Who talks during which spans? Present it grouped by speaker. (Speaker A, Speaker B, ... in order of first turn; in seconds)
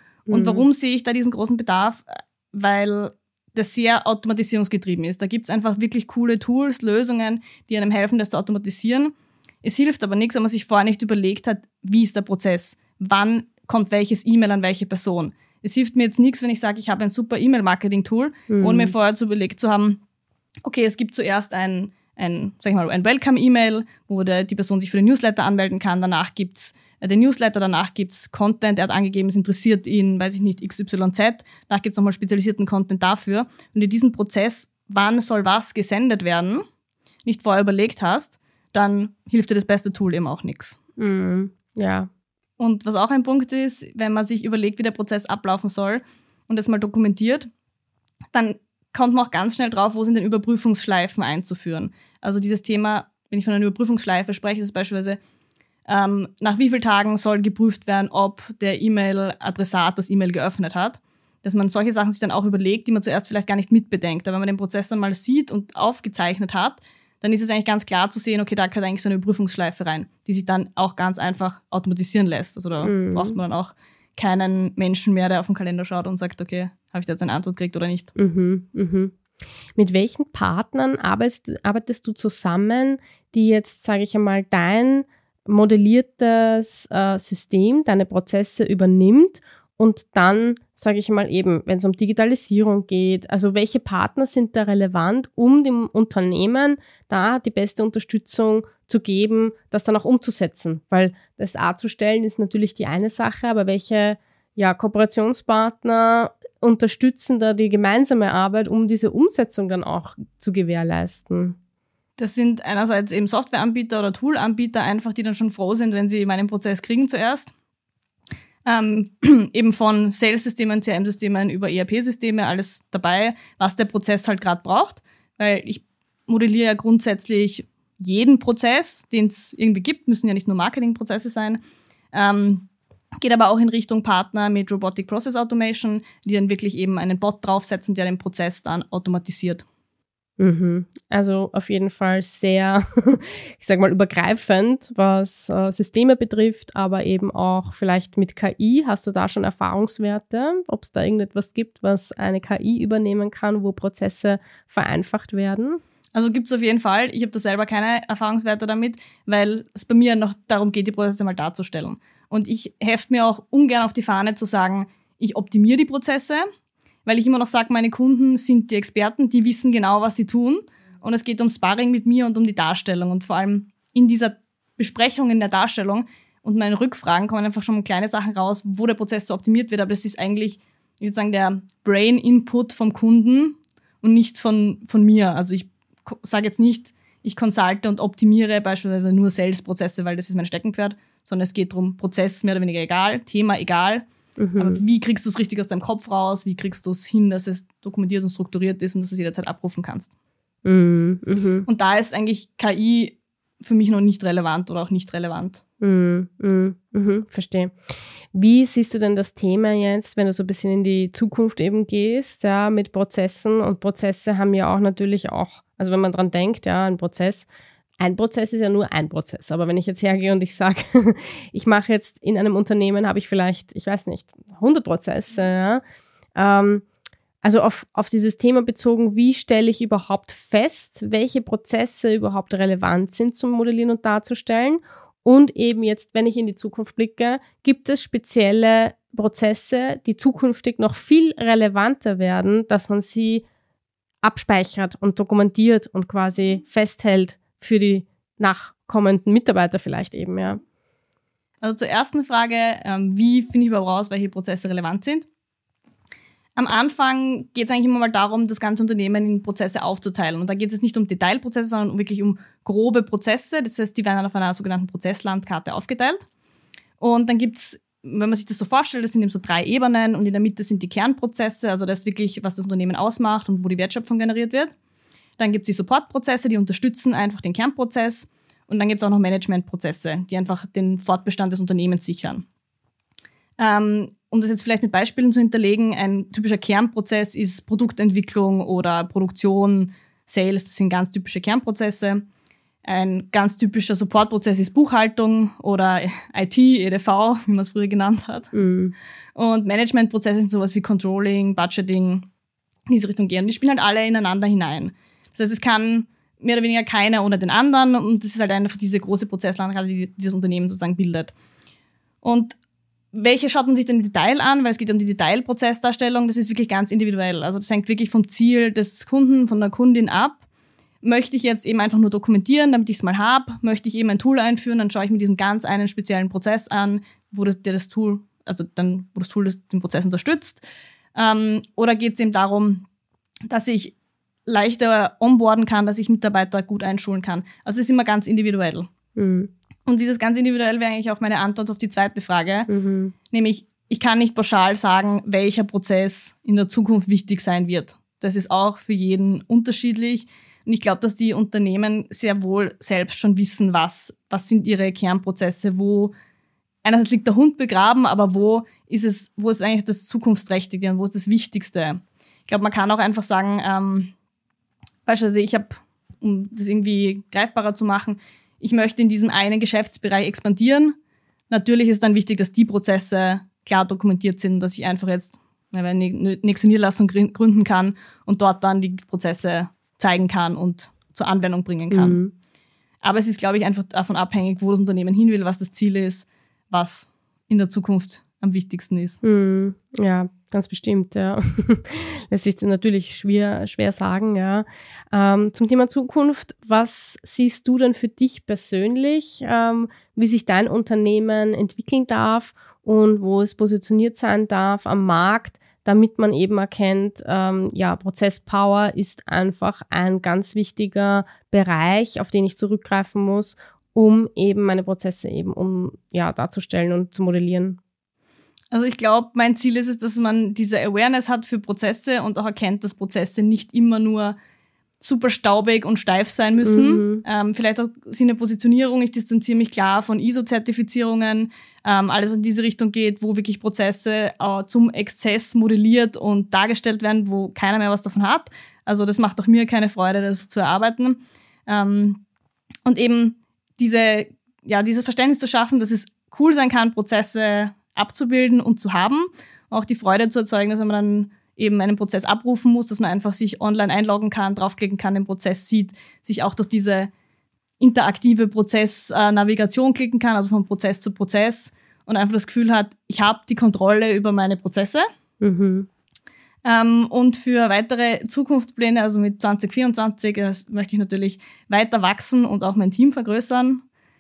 Speaker A: 0.3-0.7, 18.5-18.9, 41.0-42.1, 72.8-73.4, 78.2-79.2, 79.7-111.5, 140.4-155.8, 194.4-194.8, 200.6-201.7, 205.8-207.8, 208.3-217.5, 218.0-225.8, 226.3-226.8, 227.4-243.4, 244.2-250.6, 298.5-298.9, 339.1-339.5, 342.7-343.1, 381.9-382.3, 389.2-417.8, 426.6-427.2, 465.4-465.9
Speaker B: 0.3-20.0, 20.6-36.6, 37.2-40.8, 42.6-47.5, 48.3-55.2, 55.9-78.1, 112.2-117.5, 118.7-131.6, 132.1-139.6, 156.1-166.4, 167.1-194.0, 194.6-200.1, 201.7-205.6, 251.6-255.3, 256.6-266.2, 267.0-274.7, 275.4-282.4, 283.6-292.2, 292.8-298.5, 299.4-302.3, 302.9-311.3, 312.2-312.6, 313.1-320.4, 321.0-330.6, 331.1-332.8, 333.5-333.9, 334.4-338.9, 339.9-342.7, 343.3-356.1, 356.8-364.1, 365.1-370.9, 371.5-382.2, 383.0-389.2, 418.7-424.4, 425.0-442.2, 442.9-457.1, 457.8-465.1, 466.6-473.8